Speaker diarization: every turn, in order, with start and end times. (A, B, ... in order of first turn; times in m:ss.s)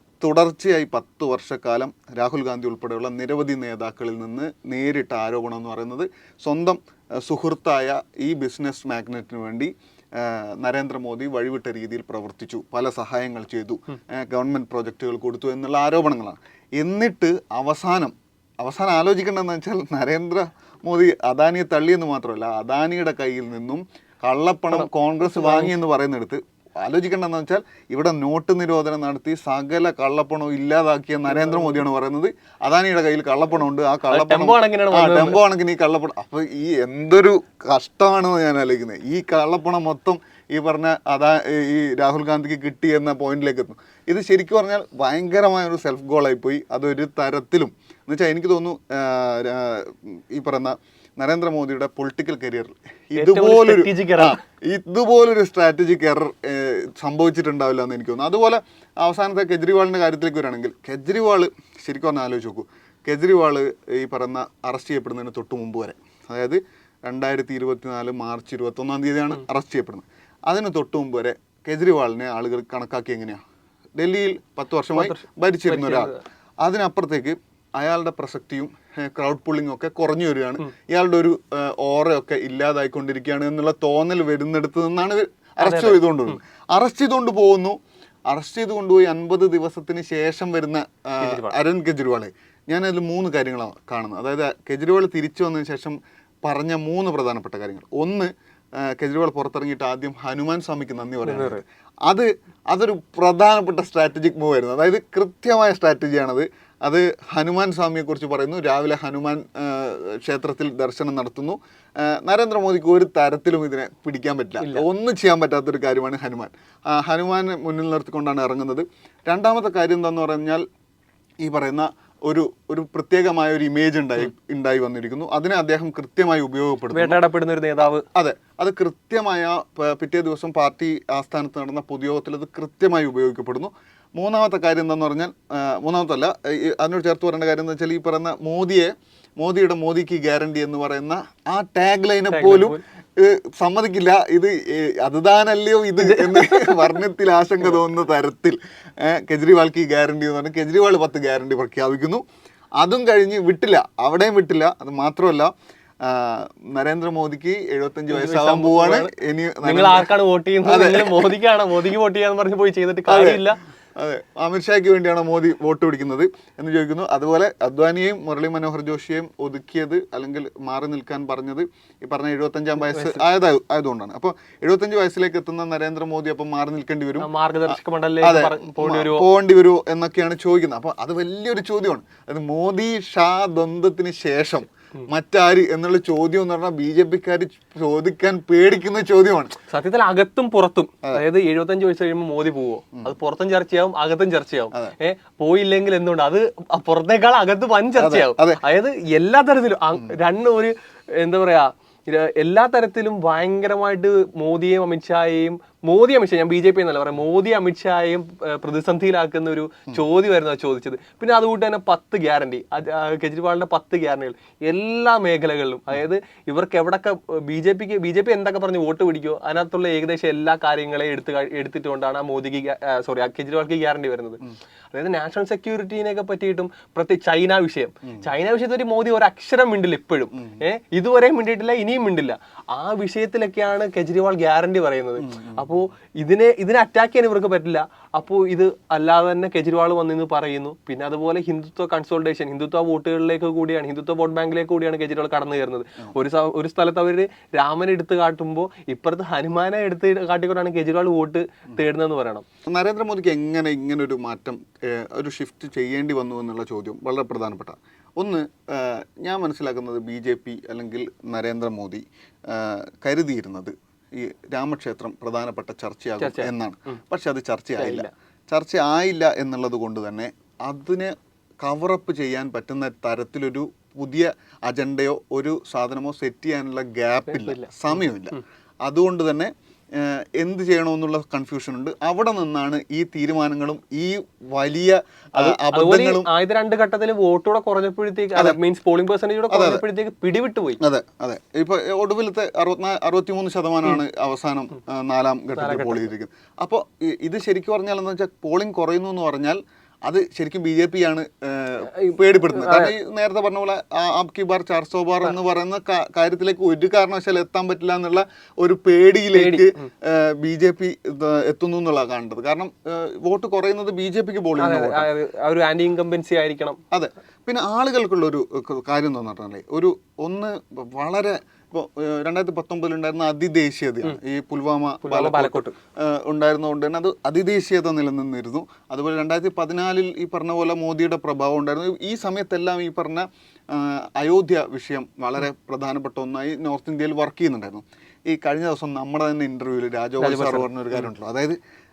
0:00.2-1:13.4 A
0:24.7-0:25.7 B
0:31.3-0:31.8 B
0:34.1-0:35.4 B
0:53.2-0:54.4 B
1:14.0-2:00.6 A
1:14.9-1:16.2 B
1:25.6-1:26.4 B
1:31.2-1:31.6 B
1:41.2-1:41.6 B
2:01.4-2:07.2 A
2:06.9-2:08.0 B
2:08.1-2:32.2 A
2:22.3-2:22.8 B
2:26.0-2:26.9 B
2:32.8-2:35.5 A
2:36.0-2:40.1 A
2:38.1-2:43.6 B
2:40.6-2:41.4 A
2:43.1-3:09.6 A
2:52.9-2:53.2 B
2:57.2-2:59.3 B
3:09.7-3:44.4 B
3:18.0-3:18.6 A
3:44.9-4:12.4 B
3:55.2-3:55.8 A
4:12.7-4:46.3 A
4:26.2-4:27.0 B
4:27.8-4:28.1 B
4:37.3-4:38.4 B
4:45.4-4:50.8 B
4:49.5-4:49.8 A
4:50.8-5:15.1 A
4:55.6-4:56.1 B
5:01.9-5:02.9 B
5:09.3-5:09.8 B
5:14.6-5:16.8 B
5:16.9-5:41.6 A
5:25.0-5:25.8 B
5:40.2-5:41.1 B